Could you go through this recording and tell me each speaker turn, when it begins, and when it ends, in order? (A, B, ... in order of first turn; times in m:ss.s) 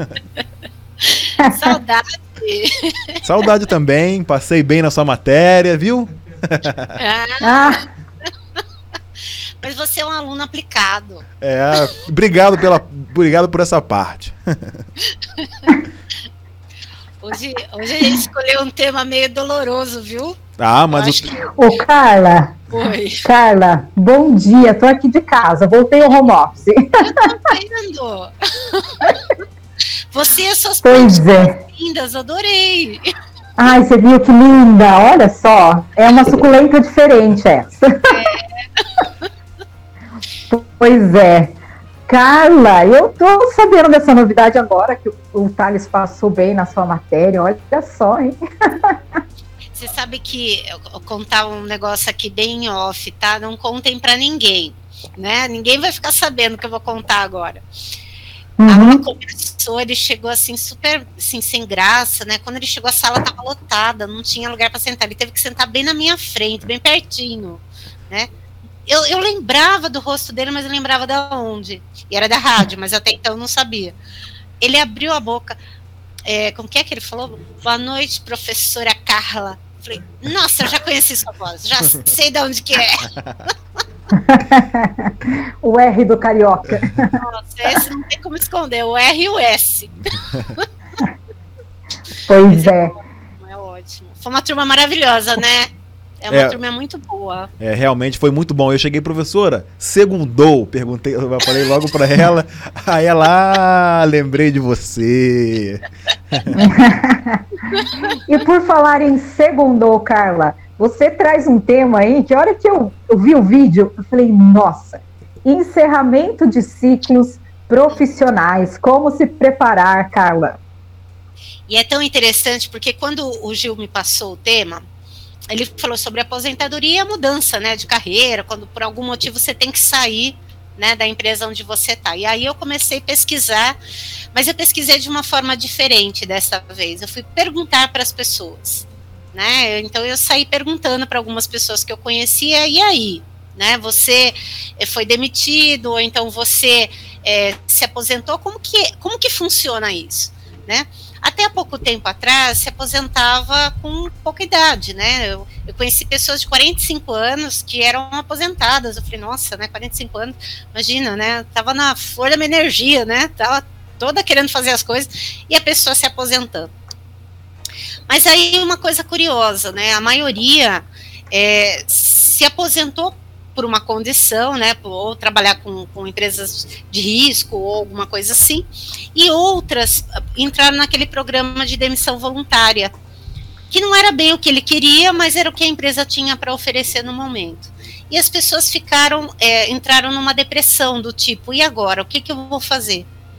0:01.0-0:03.2 A
0:01.4-0:01.7 B
0:03.2-0:06.9 C
0:07.0-0:07.8 A
0:07.4-0:07.8 B
0:09.6-0:11.2 A
0:11.4-0:14.4 C
0:15.4-0:15.7 A
0:17.2-0:20.4 A
0:20.6-0:21.3 C
0:20.9-0:21.5 A
0:21.5-0:26.7 B
0:22.7-0:23.2 A
0:27.0-0:29.2 A
0:30.1-0:33.0 A
0:30.8-0:31.6 B
0:33.6-0:37.9 B
0:38.1-0:39.2 A
0:40.5-0:41.6 B
0:42.1-0:49.0 B
0:49.7-0:57.6 A
0:58.6-0:59.0 B
0:58.7-1:08.3 A
1:08.9-1:14.0 A
1:14.6-1:15.6 A
1:16.2-1:23.1 A
1:24.1-1:27.2 B
1:27.2-1:30.6 A
1:32.2-1:32.9 B
1:32.4-1:35.7 A
1:36.2-1:37.5 A
1:36.3-1:36.6 C
1:37.6-1:46.6 C
1:46.5-1:47.4 B
1:47.7-1:48.1 A
1:48.3-2:00.6 B
2:01.7-2:04.8 A
2:05.5-2:13.8 A
2:14.3-2:46.7 A
2:48.1-3:02.9 A
3:03.7-3:13.1 A